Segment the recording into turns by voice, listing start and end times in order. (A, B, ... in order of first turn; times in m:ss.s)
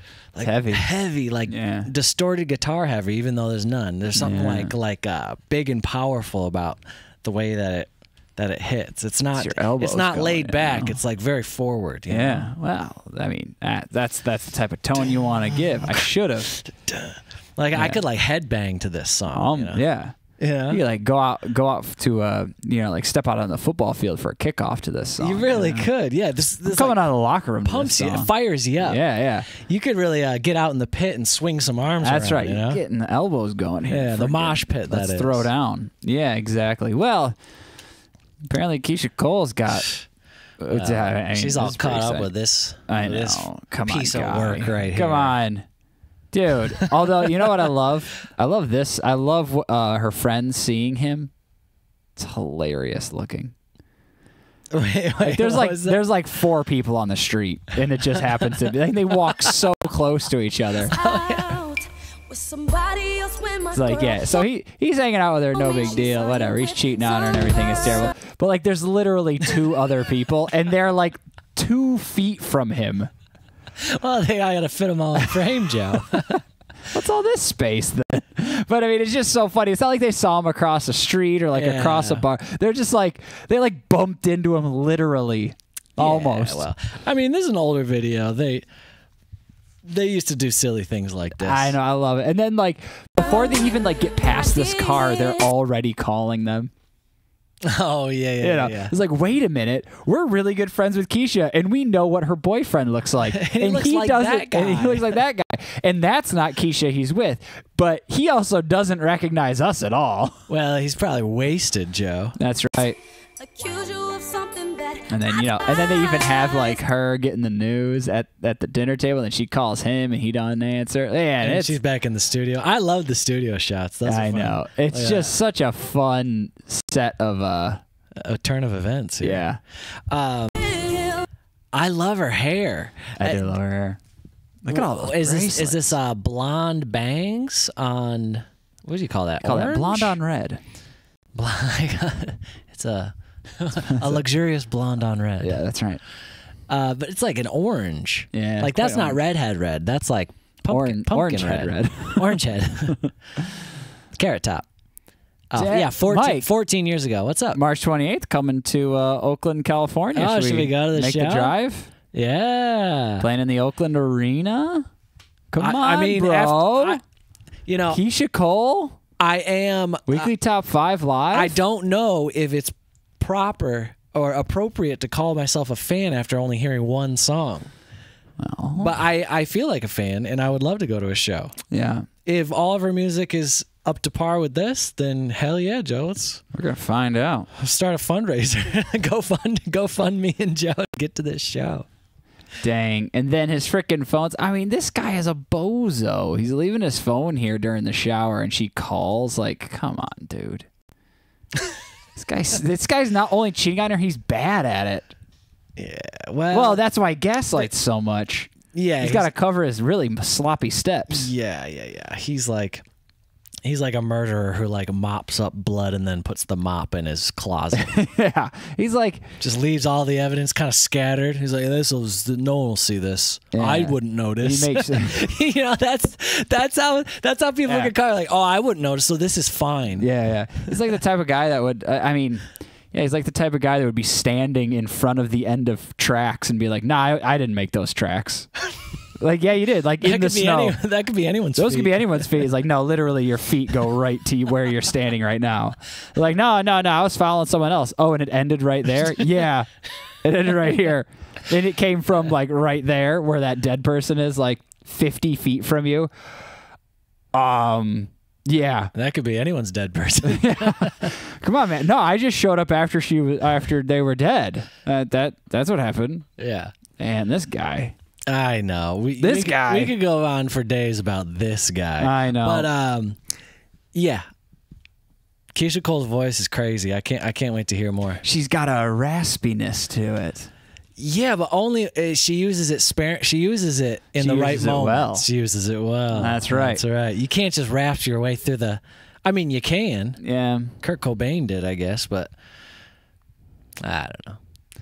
0:00.3-0:12.5 A
0:00.4-0:00.9 B
0:01.5-0:01.9 B
0:04.2-0:04.7 B
0:09.4-0:11.0 B
0:12.1-0:16.5 B
0:16.6-0:19.8 A
0:17.7-0:18.0 B
0:19.3-0:20.1 B
0:20.4-0:20.8 A
0:20.7-0:25.9 B
0:25.2-0:27.0 A
0:26.7-0:28.3 B
0:27.6-0:32.8 A
0:28.8-0:29.5 B
0:32.0-0:37.4 B
0:33.9-0:35.5 A
0:38.4-0:39.9 B
0:40.6-0:42.3 B
0:40.7-0:45.4 A
0:42.9-0:45.6 B
0:46.3-0:51.3 B
0:52.2-0:53.5 B
0:54.7-0:56.0 A
0:55.2-1:00.9 B
1:00.9-1:01.6 A
1:00.9-1:04.5 C
1:03.7-1:13.1 B
1:05.5-1:08.1 C
1:13.9-1:16.4 A
1:15.2-1:16.0 B
1:16.9-1:26.7 B
1:21.5-1:22.2 A
1:26.0-1:28.6 A
1:29.8-1:31.8 A
1:31.4-1:36.7 B
1:34.2-1:35.5 C
1:37.6-1:38.9 A
1:38.4-1:50.3 B
1:43.2-1:45.2 A
1:50.5-1:52.4 A
1:52.4-1:53.0 B
1:53.4-1:56.8 C
1:55.1-2:01.7 B
2:01.4-2:05.4 A
2:04.0-2:07.8 B
2:08.2-2:09.5 A
2:09.2-2:09.6 B
2:10.1-2:10.7 A
2:10.8-2:11.2 C
2:11.7-2:13.5 A
2:13.2-2:14.0 B
2:14.6-2:16.0 B
2:14.7-2:20.2 A
2:19.4-2:20.6 B
2:21.3-2:25.6 A
2:23.9-2:24.2 B
2:25.4-2:26.0 B
2:26.7-2:33.0 A
2:28.3-2:29.2 B
2:30.7-2:32.4 B
2:34.1-2:34.7 A
2:35.5-2:37.6 A
2:35.5-2:36.5 B
2:37.5-2:41.9 B
2:40.1-2:41.5 A
2:42.1-2:43.2 A
2:43.2-2:44.8 B
2:45.5-2:47.0 B
2:45.6-2:47.0 A
2:47.6-2:48.0 A
2:47.9-2:49.0 B
2:49.2-2:50.3 A
2:50.1-2:51.6 B
2:51.3-2:57.7 A
2:58.4-2:58.9 B
2:58.8-3:01.5 A
3:01.7-3:02.0 B
3:02.2-3:06.4 A
3:06.5-3:07.5 B
3:07.5-3:11.8 A
3:12.6-3:20.7 B
3:22.1-3:25.1 B
3:25.8-3:26.8 A
3:26.5-3:31.3 B
3:28.7-3:29.3 A
3:31.1-3:32.8 A
3:33.6-3:37.9 A
3:37.7-3:39.2 B
3:39.4-3:50.1 A
3:43.5-3:45.2 B
3:47.6-3:47.9 B
3:50.0-3:58.5 B
3:59.2-4:00.8 B
4:00.0-4:02.4 A
4:01.5-4:09.7 B
4:10.2-4:16.1 B
4:17.3-4:18.9 B
4:18.9-4:21.1 A
4:20.2-4:26.3 B
4:26.4-4:26.7 A
4:27.0-4:27.9 B
4:28.3-4:33.2 A
4:29.2-4:29.9 B
4:32.0-4:32.7 B
4:33.9-4:34.2 A
4:35.5-4:38.2 A
4:38.2-4:40.5 B
4:41.0-4:50.2 A
4:44.2-4:45.2 B
4:46.1-4:46.8 B
4:50.2-4:50.8 B
4:50.8-4:52.3 A
4:53.8-4:54.4 A